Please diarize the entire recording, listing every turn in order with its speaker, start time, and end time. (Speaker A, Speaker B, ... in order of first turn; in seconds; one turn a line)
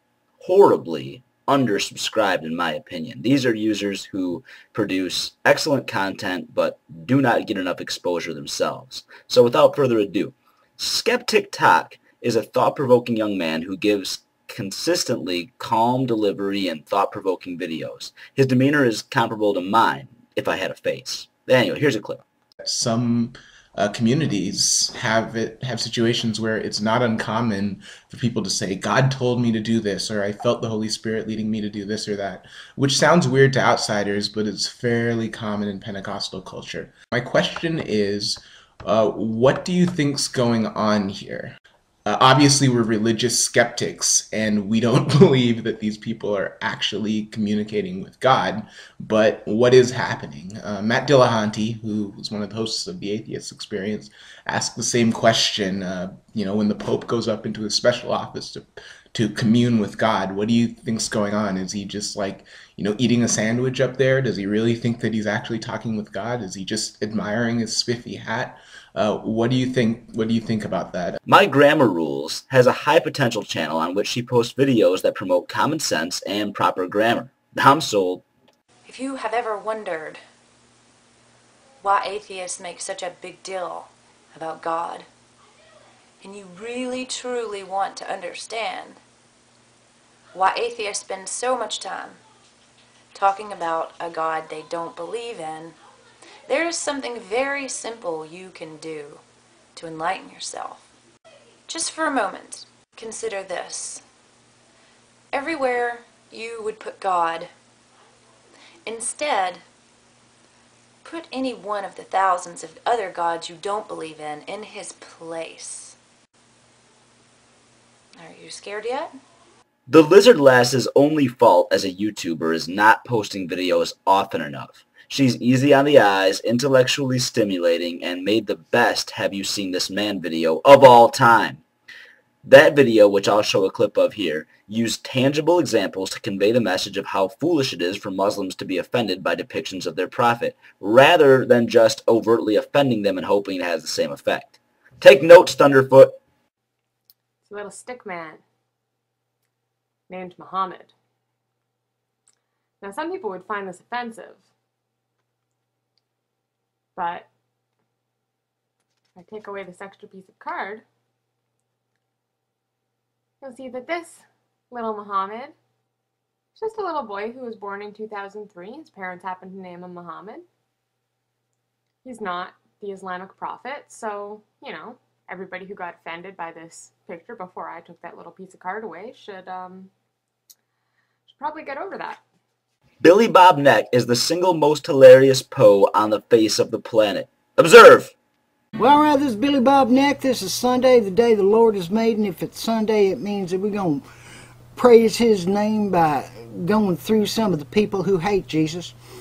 Speaker A: 0.4-22.2
Speaker B: 22.6-41.5
Speaker B: 42.1-71.2
Speaker A: 71.3-78.2
Speaker C: 78.8-80.2
Speaker C: 81.8-85.1
Speaker C: 86.2-89.0
Speaker C: 90.3-92.2
Speaker C: 93.1-95.8
Speaker C: 96.5-99.2
Speaker C: 99.8-100.9
Speaker C: 101.7-104.0
Speaker C: 105.3-107.5
Speaker C: 108.8-109.6
Speaker C: 111.0-116.0
Speaker C: 118.2-119.1
Speaker A: 119.9-131.6
Speaker A: 132.4-146.2
Speaker D: 147.5-148.4
Speaker D: 150.1-150.9
Speaker D: 152.8-154.5
Speaker D: 157.0-157.3
Speaker D: 159.2-160.8
Speaker D: 163.4-165.6
Speaker D: 166.6-170.5
Speaker D: 172.0-179.9
Speaker D: 181.3-182.2
Speaker A: 183.0-188.1
Speaker E: 188.8-194.0
Speaker E: 194.8-198.9